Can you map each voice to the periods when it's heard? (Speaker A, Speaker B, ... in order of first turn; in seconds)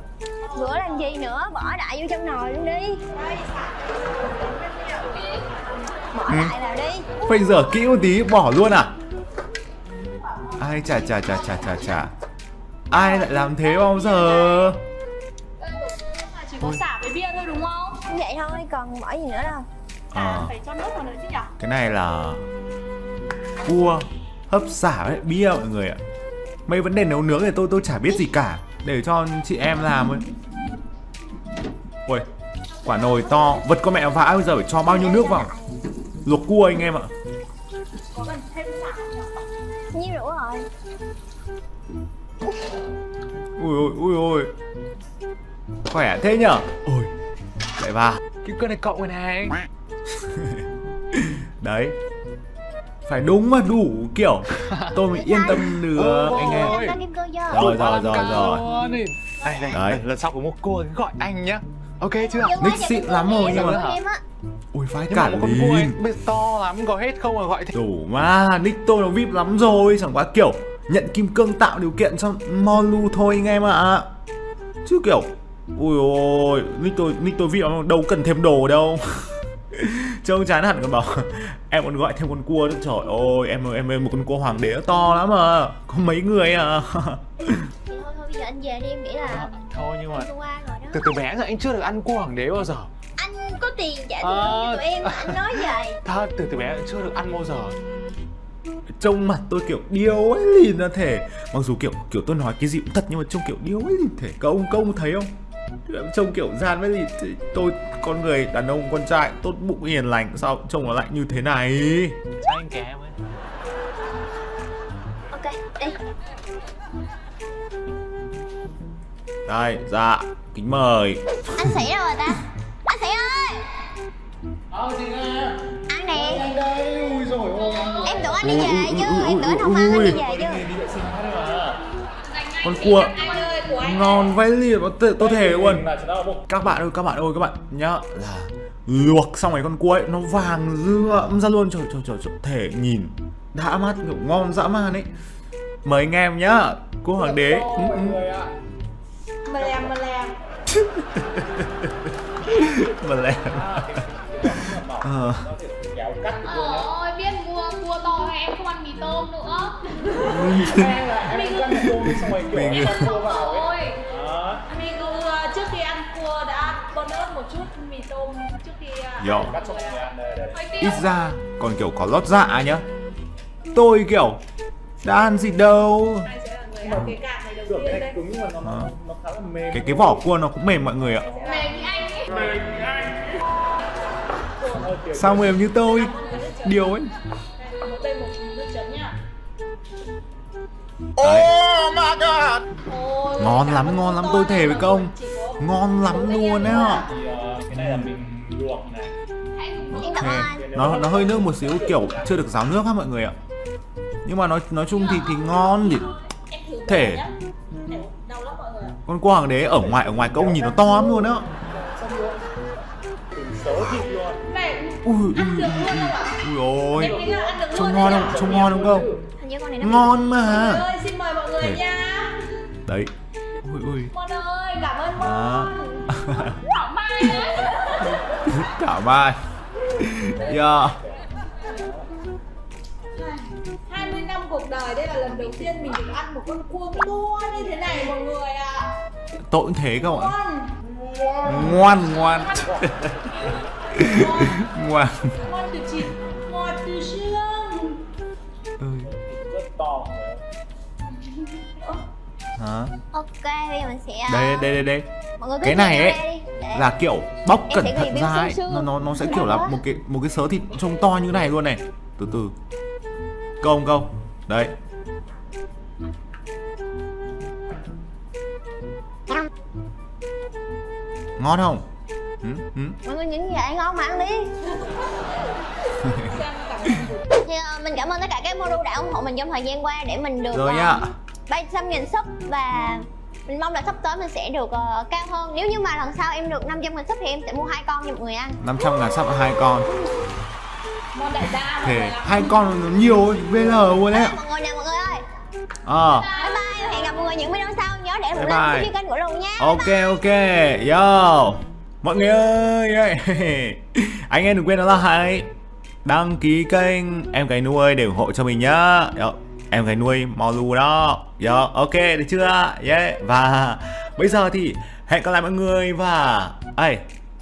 Speaker A: 0.5-3.0, 6.1-7.1, 18.1-19.7, 34.8-35.8, 39.9-40.7, 55.0-55.7, 56.2-58.5, 62.2-64.2, 87.9-91.1, 93.2-96.0, 115.3-116.0, 121.5-123.7, 125.9-126.5, 128.0-130.6, 199.9-200.7, 219.4-220.3, 253.1-254.7, 255.4-256.9, 257.7-259.8, 273.0-274.5, 277.3-288.6, 293.8-295.2, 296.3-300.2
Speaker B: 3.1-5.2, 12.9-14.7, 15.6-18.0, 20.1-21.5, 38.1-39.2, 133.2-133.8, 149.4-150.3, 164.7-170.0, 176.2-178.2, 184.6-184.9, 185.8-186.8, 187.6-189.2, 192.9-193.2, 194.1-195.6, 206.5-207.3, 207.9-209.0, 214.5-216.3, 217.4-218.2, 220.4-222.4, 224.1-226.0, 233.2-238.9, 240.0-240.7, 244.0-244.4, 245.4-248.0, 276.4-277.2
Speaker C: 6.3-6.5, 7.2-8.9, 10.6-12.1, 12.9-14.8, 20.1-20.5, 21.6-22.4, 23.6-26.0, 26.7-30.2, 32.8-35.5, 36.2-37.1, 43.6-44.5, 45.9-47.1, 47.8-48.3, 50.2-50.5, 51.1-52.0, 53.0-56.9, 57.5-58.6, 59.7-60.0, 62.6-63.8, 64.7-66.0, 67.7-74.1, 74.8-87.7, 99.0-105.3, 105.9-112.2, 119.5-121.6, 128.4-130.2, 132.6-133.2, 133.8-135.8, 136.5-145.1, 145.8-148.2, 150.7-154.0, 155.0-155.4, 160.2-160.9, 162.2-163.1, 169.2-169.6, 170.8-172.8, 173.7-174.4, 175.0-176.3, 178.6-178.9, 179.7-181.3, 185.1-187.1, 191.2-191.7, 193.3-197.1, 197.8-198.0, 199.9-203.3, 204.2-206.1, 206.8-207.2, 209.1-211.5, 215.0-219.1, 219.8-220.9, 221.6-221.8, 222.8-224.1, 225.1-226.6, 228.1-229.4, 230.0-231.0, 239.5-240.3, 241.4-243.1, 243.9-245.4, 248.8-249.1, 252.6-252.9, 254.3-255.1, 255.6-256.2, 256.7-262.5, 263.6-264.7, 271.4-271.9, 272.4-273.0, 280.5-281.1, 288.6-289.9, 291.8-294.4, 295.8-296.3, 298.3-298.9, 299.6-305.5, 306.0-317.0
Speaker D: 48.4-49.7, 55.8-57.0, 57.5-62.6, 63.4-64.0, 65.1-67.7, 89.2-90.3, 90.9-92.9, 94.2-97.8, 112.4-113.2, 124.7-128.4, 130.0-131.8, 135.2-136.4, 147.1-148.5, 149.6-149.9, 152.5-156.9, 160.1-164.7, 169.2-170.7, 177.7-180.2, 181.2-183.2, 184.7-185.6, 191.6-192.6, 196.6-199.1, 200.4-202.3, 209.7-212.6, 213.3-214.4, 216.9-219.2, 230.4-230.8, 241.1-242.8, 249.1-250.4
Speaker E: 132.1-134.2, 156.4-160.6, 162.7-164.0, 170.5-171.1, 181.4-182.5, 193.0-193.7, 199.5-200.3, 204.9-206.3, 218.2-218.6, 226.4-228.0, 296.3-297.1